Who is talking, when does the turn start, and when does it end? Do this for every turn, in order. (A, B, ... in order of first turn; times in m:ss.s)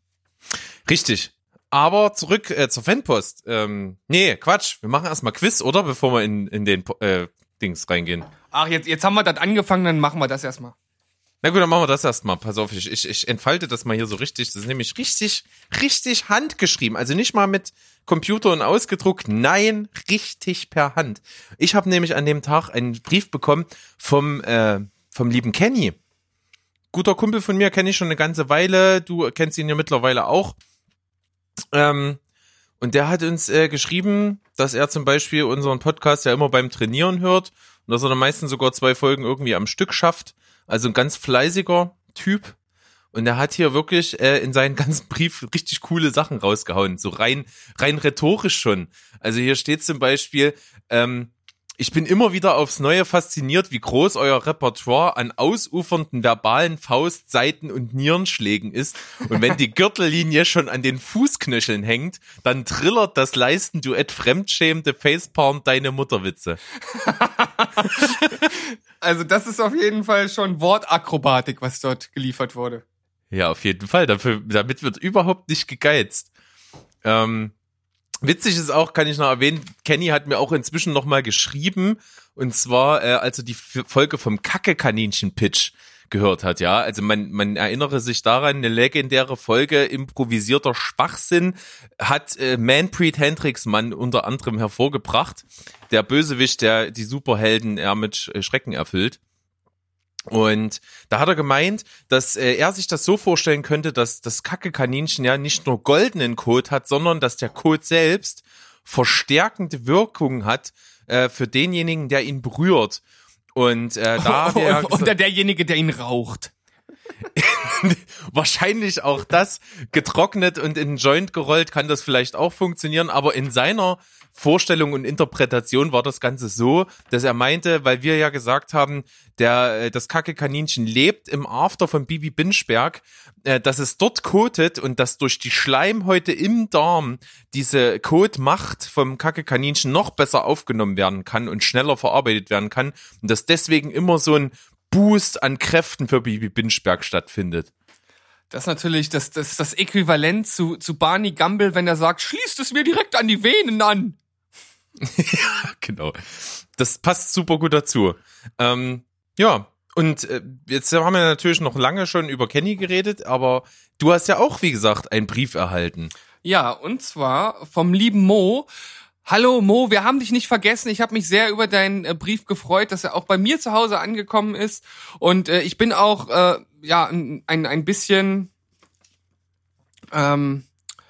0:00.9-0:08.3 A
0:08.5-0:10.8 B
0:11.4-0:26.0 A
0:26.9-0:30.6 A
0:31.7-0:32.2 A
0:32.8-0:42.6 A
0:43.1-1:06.6 A
1:06.9-1:12.8 B
1:07.9-1:08.4 A
1:13.3-1:16.3 A
1:17.0-1:17.5 A
1:18.2-1:39.2 A
1:40.3-1:53.0 A
1:53.6-1:55.1 A
1:54.2-1:56.5 B
1:57.4-2:27.7 A
2:28.5-2:34.2 B
2:35.0-2:46.1 A
2:46.4-2:48.7 B
2:49.2-2:58.5 B
3:00.1-3:00.7 B